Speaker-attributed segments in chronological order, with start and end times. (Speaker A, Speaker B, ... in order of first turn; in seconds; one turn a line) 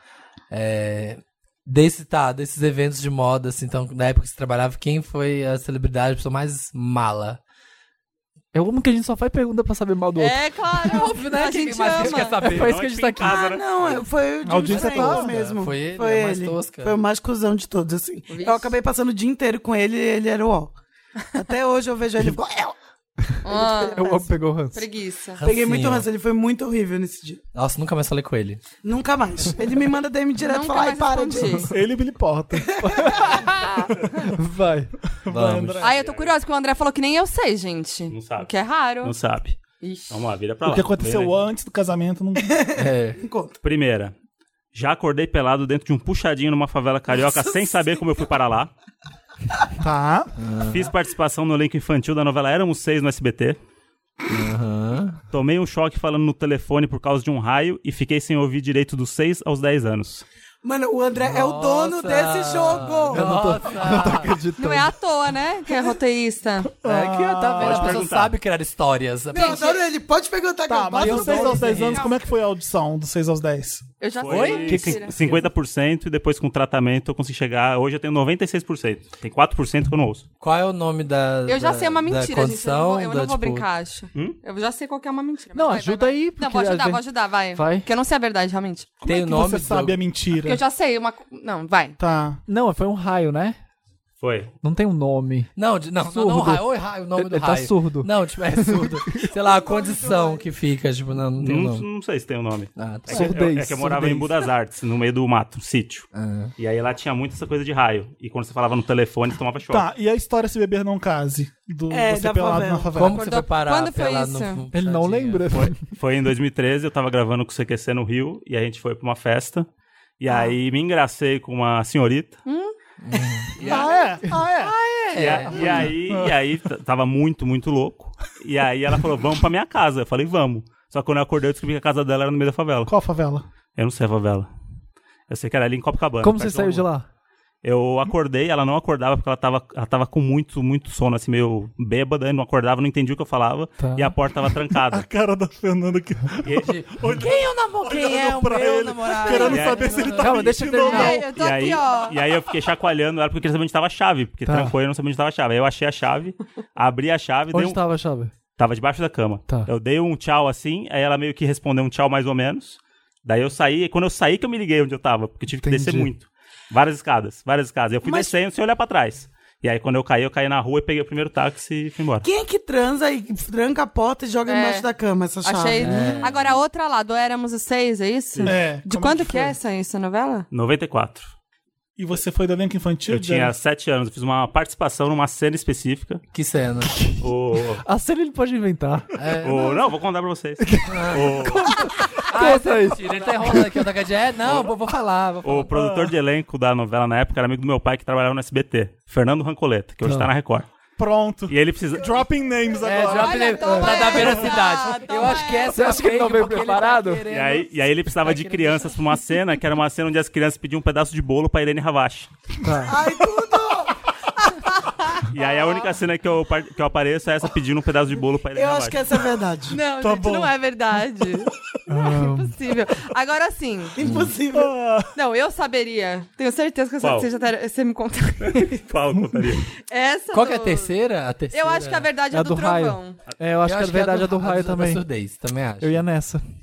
Speaker A: 0.5-7.4
Speaker B: 8.5-13.6
Speaker C: 10.2-12.5
Speaker D: 12.4-14.1
Speaker E: 13.3-20.7
Speaker F: 14.4-15.4
Speaker A: 14.7-16.9
Speaker C: 18.3-18.7
Speaker E: 21.3-22.8
Speaker C: 23.4-24.1
Speaker E: 23.4-24.3
Speaker B: 23.9-24.8
Speaker C: 24.7-25.4
Speaker A: 25.4-26.1
Speaker E: 25.4-27.4
Speaker A: 27.5-28.6
Speaker E: 28.8-31.7
Speaker C: 30.4-31.7
Speaker F: 31.7-33.1
Speaker E: 32.8-33.1
Speaker B: 32.8-34.9
Speaker F: 35.1-35.9
Speaker A: 35.3-35.8
Speaker D: 35.8-36.4
Speaker C: 35.8-39.1
Speaker D: 38.1-38.5
Speaker D: 39.0-39.6
Speaker C: 39.8-40.1
Speaker D: 40.1-41.3
Speaker F: 40.6-42.6
Speaker E: 42.5-43.6
Speaker A: 42.8-43.2
Speaker D: 43.6-44.1
Speaker D: 44.7-48.7
Speaker F: 49.8-50.3
Speaker A: 50.4-50.9
Speaker D: 50.6-53.6
Speaker A: 54.3-55.2
Speaker D: 55.3-60.2
Speaker E: 60.6-63.5
Speaker A: 61.2-64.3
Speaker B: 63.1-64.9
Speaker C: 64.6-66.7
Speaker F: 66.8-68.0
Speaker A: 66.8-69.7
Speaker D: 67.5-68.3
Speaker C: 69.3-69.8
Speaker E: 69.3-72.0
Speaker F: 70.7-73.8
Speaker B: 71.0-72.0
Speaker C: 74.0-75.1
Speaker D: 74.2-80.2
Speaker A: 74.3-74.9
Speaker B: 74.6-75.4
Speaker A: 80.4-83.7
Speaker C: 81.5-88.9
Speaker B: 85.5-87.9
Speaker F: 89.0-90.6
Speaker A: 89.0-90.0
Speaker C: 90.4-92.0
Speaker F: 92.0-92.4
Speaker B: 92.5-93.6
Speaker D: 94.2-94.5
Speaker B: 94.6-99.3
Speaker A: 95.5-101.8
Speaker E: 99.3-100.5
Speaker D: 101.4-109.8
Speaker A: 102.8-103.4
Speaker B: 103.1-104.4
Speaker A: 106.1-106.5
Speaker F: 109.7-113.2
Speaker E: 111.9-112.9
Speaker A: 112.9-115.7
Speaker C: 113.1-114.6
Speaker B: 114.7-115.9
Speaker D: 116.0-119.7
Speaker D: 120.2-122.4
Speaker C: 122.5-122.7
Speaker A: 123.0-123.9
Speaker F: 123.6-124.7
Speaker A: 124.7-125.9
Speaker D: 125.1-132.9
Speaker F: 125.5-126.3
Speaker F: 132.9-133.4
Speaker D: 133.7-134.5
Speaker D: 135.3-136.9
Speaker B: 136.2-137.1
Speaker D: 137.6-145.0
Speaker B: 143.8-144.2
Speaker F: 144.9-151.2
Speaker D: 146.4-146.8
Speaker A: 146.7-150.4
Speaker C: 147.9-150.1
Speaker D: 149.3-150.1
Speaker B: 150.0-151.3
Speaker C: 150.8-152.2
Speaker D: 151.2-157.8
Speaker B: 154.4-154.8
Speaker B: 157.5-158.3
Speaker D: 158.5-172.3
Speaker B: 165.6-166.1
Speaker E: 168.0-168.3
Speaker E: 172.2-176.1
Speaker C: 174.4-174.9
Speaker C: 175.4-180.5
Speaker A: 175.8-176.3
Speaker B: 175.9-176.2
Speaker F: 178.4-179.6
Speaker D: 180.5-181.3
Speaker F: 182.0-183.5
Speaker D: 183.1-186.2
Speaker A: 186.3-186.9
Speaker B: 186.8-189.1
Speaker D: 187.2-187.8
Speaker A: 189.2-189.8
Speaker D: 189.4-191.7
Speaker B: 190.6-193.9
Speaker A: 190.8-195.7
Speaker D: 195.4-200.7
Speaker F: 195.7-196.1
Speaker B: 200.0-200.3
Speaker F: 201.0-204.3
Speaker D: 201.5-202.2
Speaker A: 202.8-206.8
Speaker B: 202.8-204.5
Speaker C: 203.1-207.7
Speaker B: 205.6-207.3
Speaker D: 207.3-212.3
Speaker C: 208.3-208.7
Speaker B: 212.6-213.0
Speaker E: 212.8-214.0
Speaker C: 214.6-215.9
Speaker D: 215.3-219.2
Speaker E: 218.5-219.8
Speaker C: 219.7-223.9
Speaker F: 219.9-220.6
Speaker B: 221.9-222.5
Speaker E: 223.9-224.7
Speaker A: 224.0-224.3
Speaker F: 224.5-225.1
Speaker C: 225.1-228.8
Speaker D: 227.0-227.3
Speaker D: 228.4-229.7
Speaker C: 229.9-230.9
Speaker A: 230.3-232.1
Speaker C: 231.5-233.2
Speaker B: 232.3-235.0
Speaker A: 233.6-236.0
Speaker B: 235.8-236.4